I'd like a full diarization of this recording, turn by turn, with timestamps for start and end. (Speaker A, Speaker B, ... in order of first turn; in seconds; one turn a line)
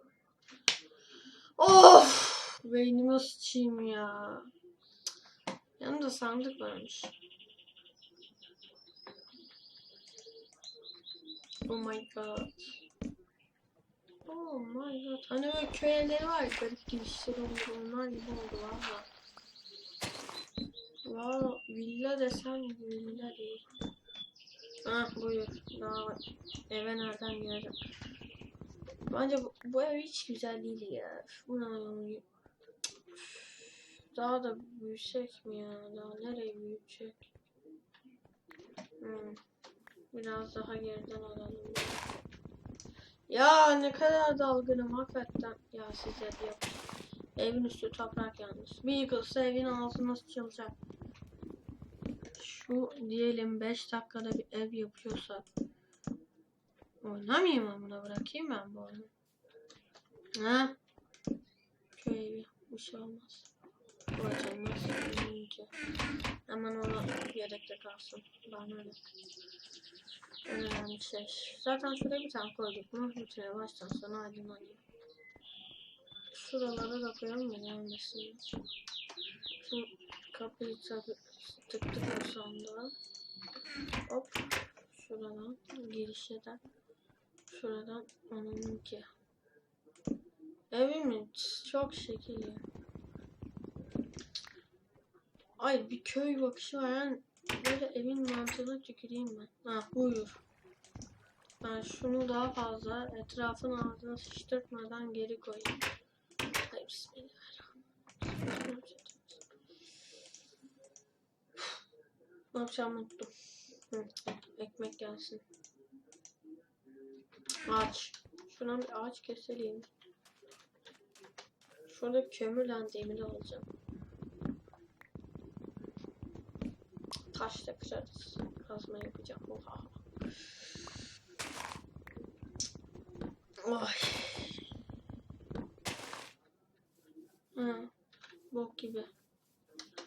Speaker A: 1.6-4.5
Speaker A: 5.8-7.2
Speaker A: 11.7-12.8
Speaker A: 14.3-19.1
Speaker A: 21.1-23.7
Speaker A: 24.9-27.8
Speaker A: 29.0-32.2
Speaker A: 33.1-37.3
Speaker A: 39.0-39.4
Speaker A: 40.1-42.0
Speaker A: 43.3-46.8
Speaker A: 47.4-50.8
Speaker A: 52.4-55.5
Speaker A: 57.0-59.1
Speaker A: 60.3-60.8
Speaker A: 62.0-63.5
Speaker A: 64.2-65.7
Speaker A: 66.5-69.0
Speaker A: 70.5-74.8
Speaker A: 76.3-78.5
Speaker A: 79.6-82.9
Speaker A: 84.1-86.6
Speaker A: 87.5-89.1
Speaker A: 90.7-92.7
Speaker A: 95.6-100.4
Speaker A: 101.6-105.8
Speaker A: 106.6-109.4
Speaker A: 112.5-113.3
Speaker A: 113.9-115.5
Speaker A: 117.7-119.9
Speaker A: 121.9-123.7
Speaker A: 127.3-130.0
Speaker A: 133.6-134.6
Speaker A: 137.6-137.9
Speaker A: 138.5-139.1